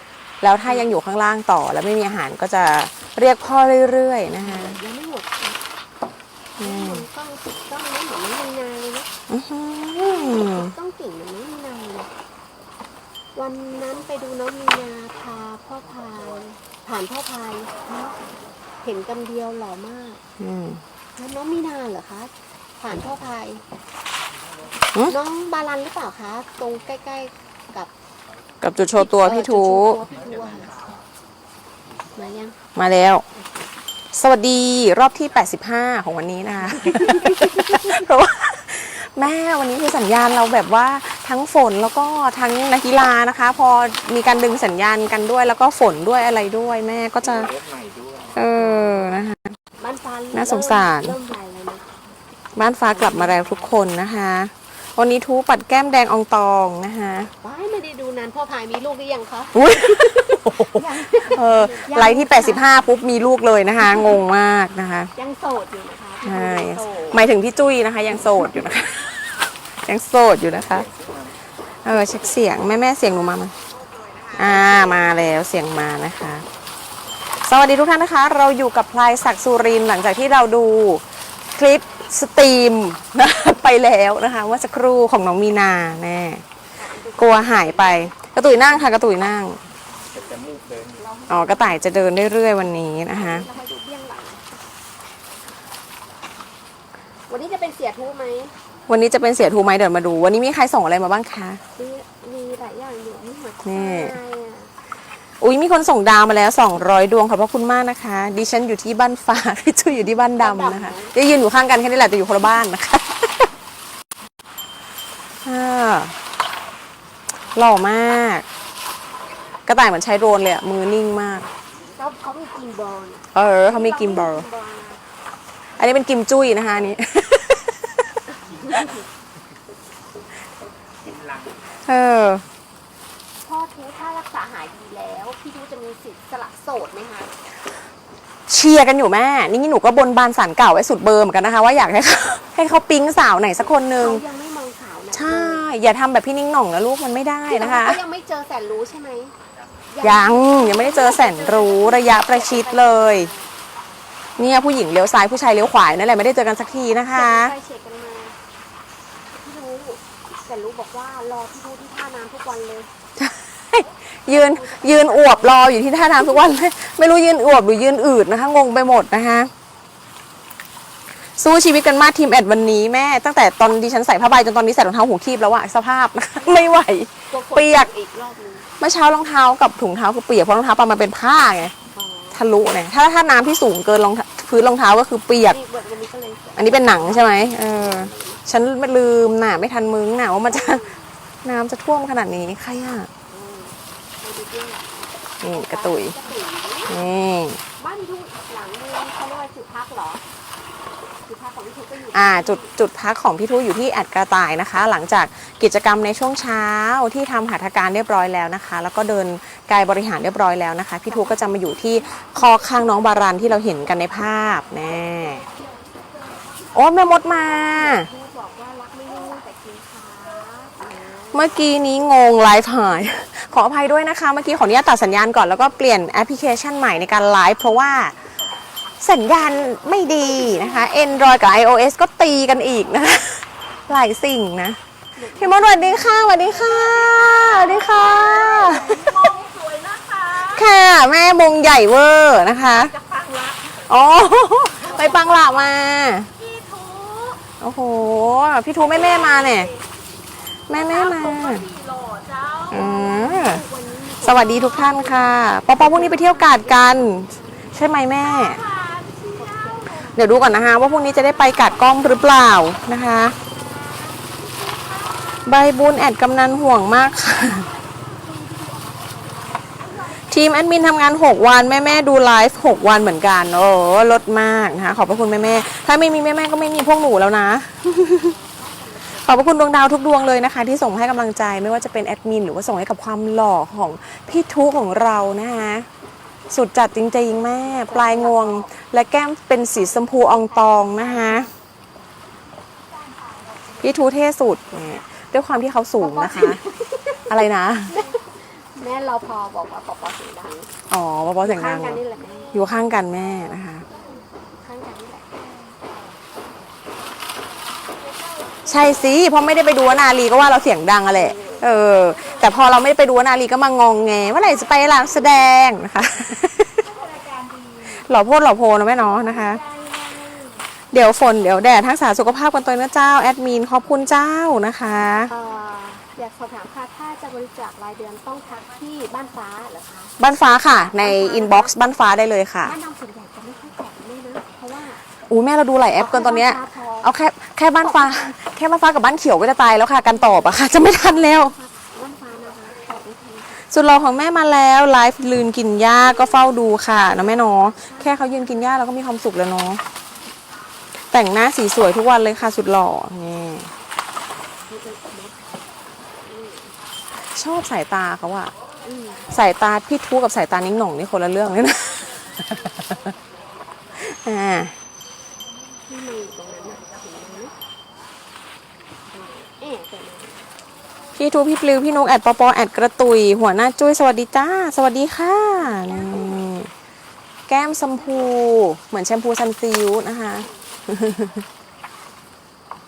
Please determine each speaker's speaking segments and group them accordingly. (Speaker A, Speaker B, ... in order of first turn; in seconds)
Speaker A: 0.4-4.8, 6.6-7.0, 9.3-10.7, 20.4-20.8, 28.6-30.0, 32.8-33.2, 34.1-47.5, 48.4-49.5, 50.3-51.2, 52.6-57.3, 59.5-65.1, 66.2-70.9, 71.8-73.5, 74.3-76.5, 77.4-86.4, 87.2-89.6, 91.3-93.5, 98.9-101.6, 103.6-104.2, 105.4-113.5, 115.5-116.2, 117.5-118.5, 119.7-121.5, 123.3-124.5, 125.8-127.9, 131.8-132.4, 138.5-144.2, 145.1-148.0, 150.0-153.3, 154.4-157.6, 163.2-169.5, 171.4-177.9, 178.8-181.7, 182.3-185.6, 186.6-190.9, 191.4-193.1, 195.4-196.2, 196.9-197.6, 202.1-215.4, 216.7-218.1, 221.3-228.2, 229.0-234.8, 235.3-239.3, 240.3-243.0, 243.7-246.3, 247.6-249.7, 250.7-251.7, 252.7-253.6, 254.2-258.6, 260.1-263.4, 265.4-267.7, 270.3-278.3, 279.2-285.9, 286.5-291.5, 293.8-296.6, 297.3-298.0, 300.9-302.0, 302.5-303.9, 308.7-316.9, 317.9-319.6, 320.9-325.3, 330.2-332.8, 335.3-341.6, 343.7-349.8, 351.1-353.7, 357.4-358.5, 359.3-363.0, 364.0-364.7, 371.2-376.7, 377.5-381.4
Speaker B: 4.4-5.6, 6.6-9.1, 10.0-12.1, 13.4-18.2, 18.8-20.2, 21.2-23.6, 25.1-27.9, 29.0-30.7, 32.1-32.6, 36.8-37.9, 49.8-51.9, 52.6-53.7, 57.4-62.7, 65.2-67.2, 86.8-88.1, 91.0-91.9, 93.1-94.4, 97.3-98.5, 101.8-104.7, 110.3-111.1, 121.9-125.0, 128.5-128.9, 133.4-137.3, 143.9-145.7, 147.5-149.3, 149.9-153.5, 157.1-158.4, 159.3-162.9, 164.3-166.2, 177.3-178.7, 181.9-182.4, 185.5-188.4, 190.6-190.9, 193.3-197.0, 197.8-200.2, 201.3-202.7, 217.6-221.5, 235.2-236.4, 237.9-240.1, 252.7-257.6, 259.1-260.2, 268.1-269.2, 277.9-279.3, 287.8-288.7, 296.0-297.3, 297.9-300.7, 301.4-302.7, 304.6-305.4, 311.2-311.6, 325.3-330.2, 331.0-331.8, 332.6-335.0, 336.0-337.1, 338.1-338.3, 340.1-343.6, 347.6-348.1, 354.7-355.4, 356.2-356.7, 358.9-359.3, 365.9-367.5, 369.1-370.4
Speaker C: 47.2-48.4, 70.8-71.3, 90.2-91.0